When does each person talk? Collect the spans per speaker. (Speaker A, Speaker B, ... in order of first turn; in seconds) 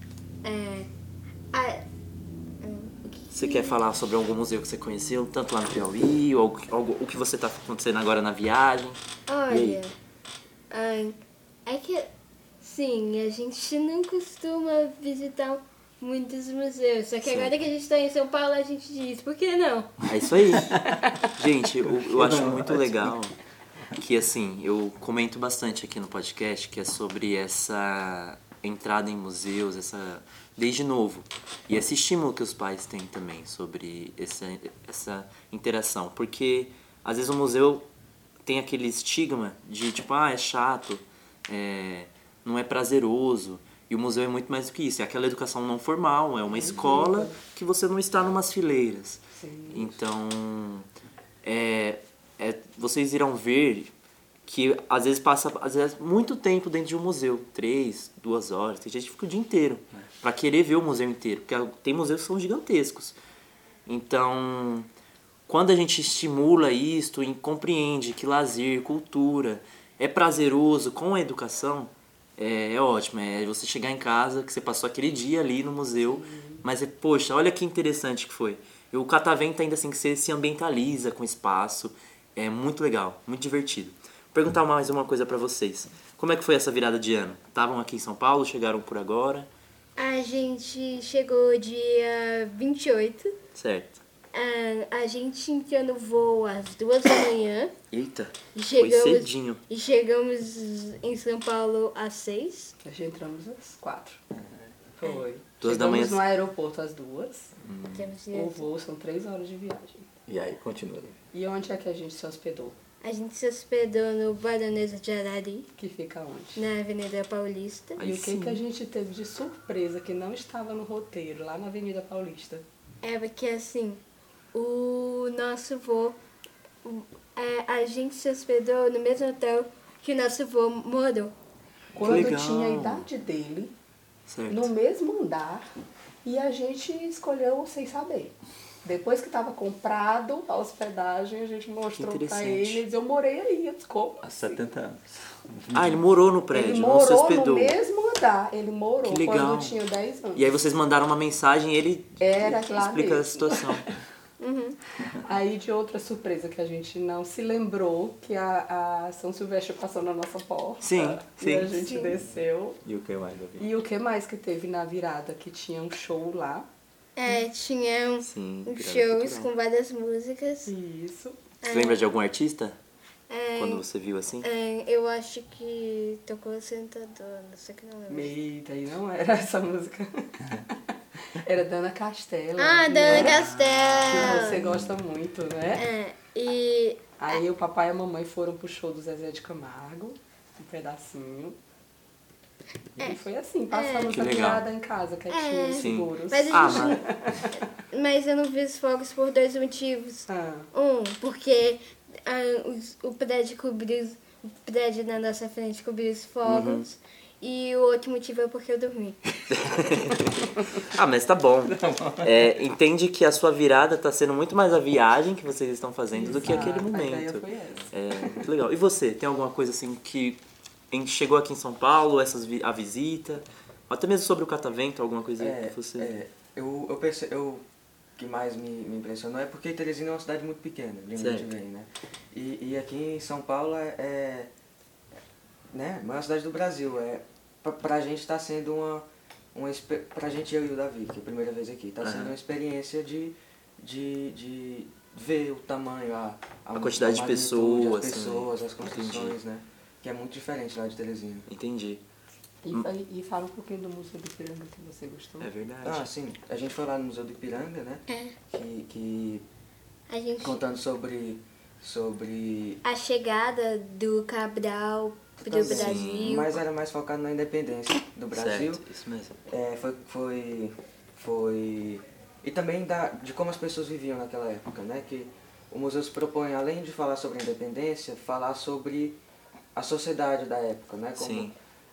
Speaker A: 0.4-0.9, 1.5-1.8, 2.6-3.8, 9.3-10.0, 10.7-12.1, 12.6-20.0, 90.0-93.3, 94.3-97.7, 98.5-102.7, 107.9-108.7, 113.0-115.7, 116.5-118.1, 123.0-124.0, 124.5-126.2, 126.8-131.3, 154.4-154.8, 161.8-162.2, 167.2-170.7, 171.6-172.1, 173.3-173.8, 174.4-178.3, 182.6-184.7, 185.7-187.4, 193.7-194.2, 195.3-197.1, 197.7-209.4, 258.1-258.4, 260.1-260.6, 262.8-266.5
Speaker B: 3.3-9.0, 9.5-9.8, 17.2-17.5, 20.0-20.7, 21.2-23.3, 24.0-37.9, 38.5-50.9, 51.4-53.9, 54.5-63.2, 63.9-64.9, 65.5-89.5, 93.5-94.0, 97.9-99.6, 105.6-106.2, 107.6-108.1, 118.0-118.6, 132.0-133.1, 134.3-134.7, 141.9-142.8, 145.7-147.8, 149.0-149.8, 150.3-153.8, 160.8-161.8, 168.2-169.5, 171.7-172.8, 173.6-174.5, 194.1-194.7, 195.8-197.0, 206.5-206.9, 209.5-220.4, 220.9-226.2, 231.2-231.5, 242.0-242.4, 246.8-249.4, 251.5-252.0, 255.4-256.1, 265.6-266.6, 268.3-269.4, 281.2-281.6
Speaker C: 20.7-21.2, 46.5-47.4, 49.3-50.0, 76.0-76.7, 102.8-104.2, 105.0-107.5, 108.3-110.1, 111.3-112.8, 115.8-116.6, 118.0-122.7, 131.9-133.7, 134.5-135.7, 136.2-144.6, 146.5-150.6, 152.2-153.9, 155.2-162.8, 163.6-166.7, 170.7-171.4, 178.1-180.7, 181.4-183.5, 184.1-185.9, 187.2-191.6, 193.0-197.5, 200.3-200.7, 216.1-218.4, 252.6-255.5
Speaker D: 21.9-23.2, 110.3-111.2, 144.2-146.0, 162.8-163.7, 183.1-184.9, 211.7-212.5
Speaker E: 225.4-227.6, 228.2-234.5, 235.7-251.5, 255.8-259.4, 260.4-262.8, 265.4-268.8, 269.5-279.2, 279.7-281.5